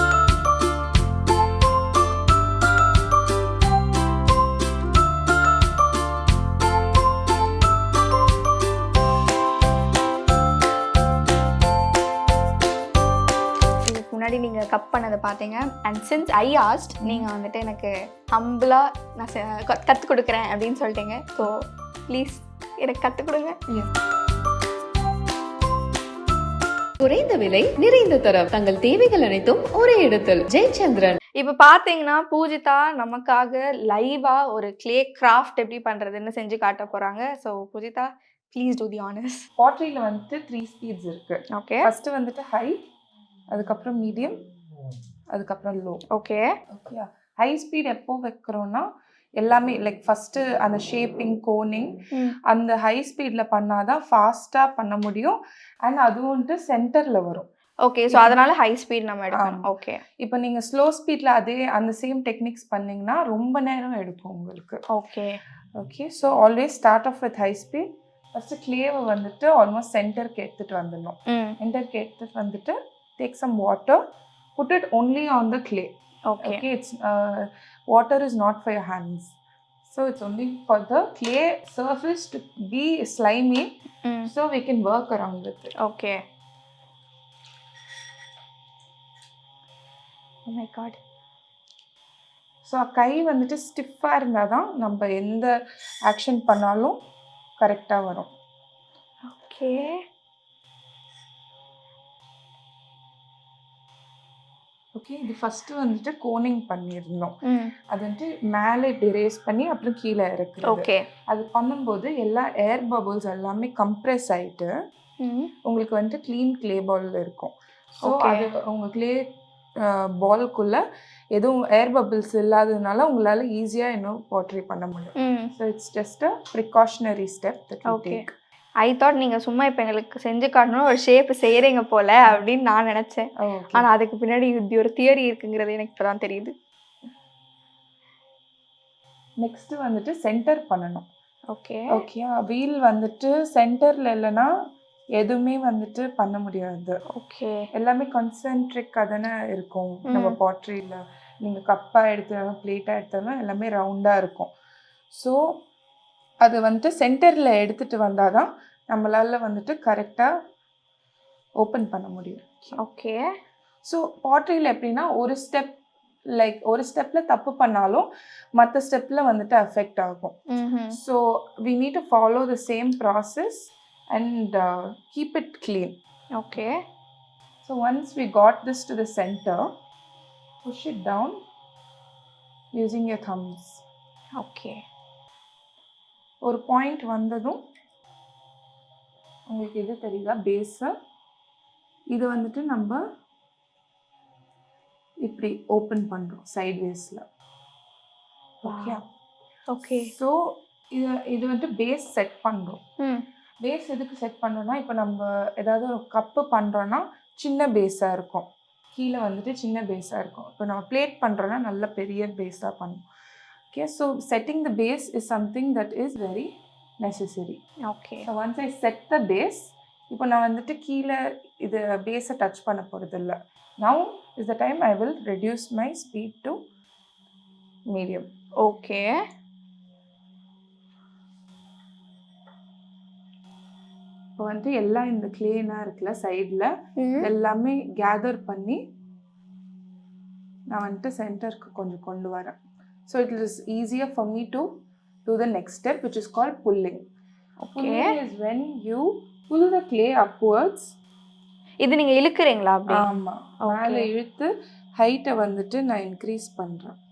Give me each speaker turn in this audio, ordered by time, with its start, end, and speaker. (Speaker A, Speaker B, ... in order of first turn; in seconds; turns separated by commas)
Speaker A: 13.8-23.6, Speaker B: 17.0-17.3, Speaker C: 27.0-31.2, Speaker A: 31.4-39.4, Speaker B: 39.6-42.8, Speaker A: 41.5-41.9, Speaker B: 43.5-44.4, Speaker B: 45.3-46.0, Speaker A: 46.1-46.5, Speaker B: 46.7-48.9, Speaker B: 49.4-57.5, Speaker A: 57.8-60.0, Speaker B: 58.1-58.4, Speaker B: 59.3-59.6, Speaker B: 60.2-64.8, Speaker A: 64.9-65.4, Speaker B: 65.8-74.0, Speaker A: 71.3-71.6, Speaker B: 74.5-83.7, Speaker A: 76.3-76.6, Speaker A: 84.0-84.3, Speaker B: 84.3-85.7, Speaker A: 85.8-86.2, Speaker A: 90.5-91.0, Speaker B: 92.6-95.5, Speaker B: 96.0-97.0, Speaker B: 97.6-98.3, Speaker A: 99.3-99.9, Speaker B: 104.9-107.3, Speaker A: 107.4-107.7, Speaker B: 107.9-114.7, Speaker A: 110.6-111.0, Speaker A: 115.2-115.5, Speaker B: 115.6-119.3, Speaker A: 118.0-118.5, Speaker B: 119.8-120.8, Speaker B: 121.3-128.3, Speaker A: 125.2-125.5, Speaker A: 127.9-128.2, Speaker A: 128.8-136.5, Speaker B: 133.4-133.9, Speaker B: 139.4-141.1, Speaker A: 141.5-142.0, Speaker B: 141.9-144.5, Speaker B: 145.2-147.0, Speaker A: 147.1-147.6, Speaker B: 147.7-154.5, Speaker A: 150.1-150.4, Speaker B: 155.1-155.4, Speaker B: 156.4-160.3, Speaker B: 161.6-162.8, Speaker A: 162.8-163.2, Speaker B: 163.8-165.8, Speaker B: 166.3-170.3, Speaker A: 170.5-171.0, Speaker B: 170.9-175.9, Speaker A: 176.3-176.7, Speaker B: 177.6-179.7, Speaker B: 180.6-181.4, Speaker B: 182.7-183.8, Speaker A: 184.4-184.8, Speaker B: 186.4-187.6, Speaker B: 189.5-190.9, Speaker B: 192.1-193.0, Speaker B: 195.2-197.2, Speaker B: 198.6-199.1, Speaker A: 198.6-199.0, Speaker A: 199.7-200.1, Speaker B: 200.0-202.8, Speaker B: 203.6-213.0, Speaker B: 213.7-216.5, Speaker B: 217.0-217.6, Speaker A: 217.8-218.2, Speaker B: 218.2-226.6, Speaker B: 227.9-228.3, Speaker A: 228.6-229.1, Speaker B: 234.4-238.8, Speaker A: 237.0-237.3, Speaker B: 240.7-244.7, Speaker B: 245.2-247.1, Speaker A: 247.6-248.1, Speaker B: 247.7-250.9, Speaker A: 251.8-253.0, Speaker B: 252.9-256.9, Speaker A: 253.7-254.1